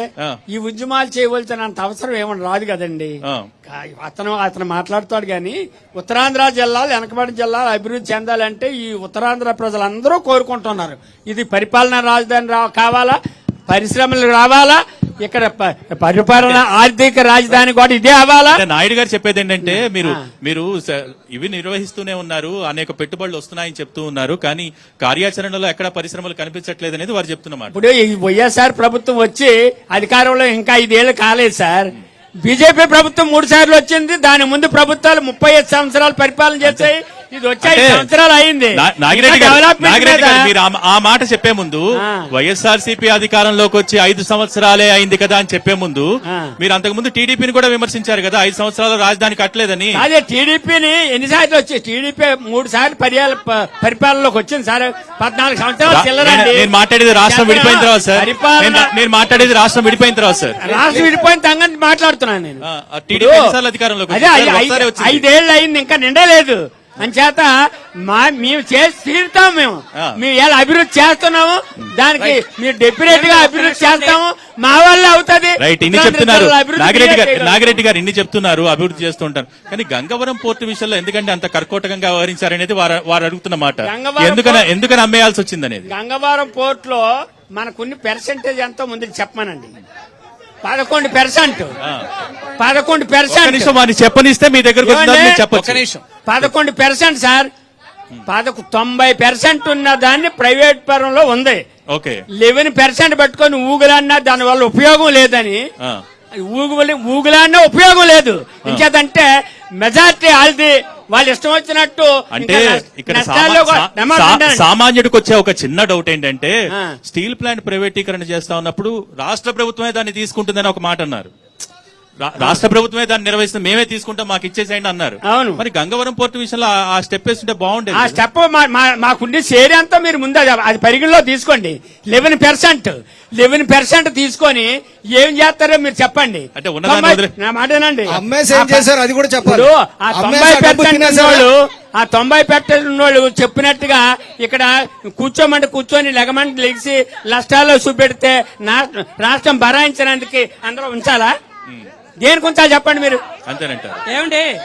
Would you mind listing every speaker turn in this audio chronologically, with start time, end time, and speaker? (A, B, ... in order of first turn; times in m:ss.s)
0:00.5-0:03.2 A
0:03.7-0:13.2 A
0:13.7-0:18.6 A
0:16.4-0:16.6 B
0:18.5-0:27.7 B
0:19.6-0:20.2 A
0:27.7-0:31.9 A
0:32.4-0:40.5 A
0:36.6-0:36.9 B
0:37.6-0:38.1 B
0:38.8-0:46.1 B
0:42.0-0:42.3 A
0:46.3-0:46.5 A
0:46.6-0:50.0 B
0:49.9-0:58.9 A
0:55.9-1:00.6 B
1:00.6-1:03.5 A
1:00.7-1:01.1 C
1:02.7-1:05.2 B
1:04.1-1:07.5 A
1:08.0-1:17.8 A
1:13.1-1:14.2 D
1:15.6-1:25.9 B
1:23.8-1:24.7 A
1:25.9-1:29.7 A
1:30.6-1:31.8 A
1:32.6-1:33.7 A
1:33.3-1:35.8 B
1:34.8-1:35.4 A
1:35.5-1:36.0 D
1:36.3-1:37.5 A
1:38.3-1:41.6 A
1:41.9-1:42.2 B
1:42.4-1:45.6 A
1:46.5-1:49.3 A
1:49.8-1:54.7 A
1:52.3-2:01.3 B
2:02.2-2:08.2 B
2:05.3-2:05.6 A
2:07.9-2:18.9 A
2:16.6-2:17.3 B
2:18.1-2:21.4 C
2:19.4-2:31.3 A
2:32.2-2:33.2 A
2:33.5-2:34.0 B
2:34.1-2:34.4 D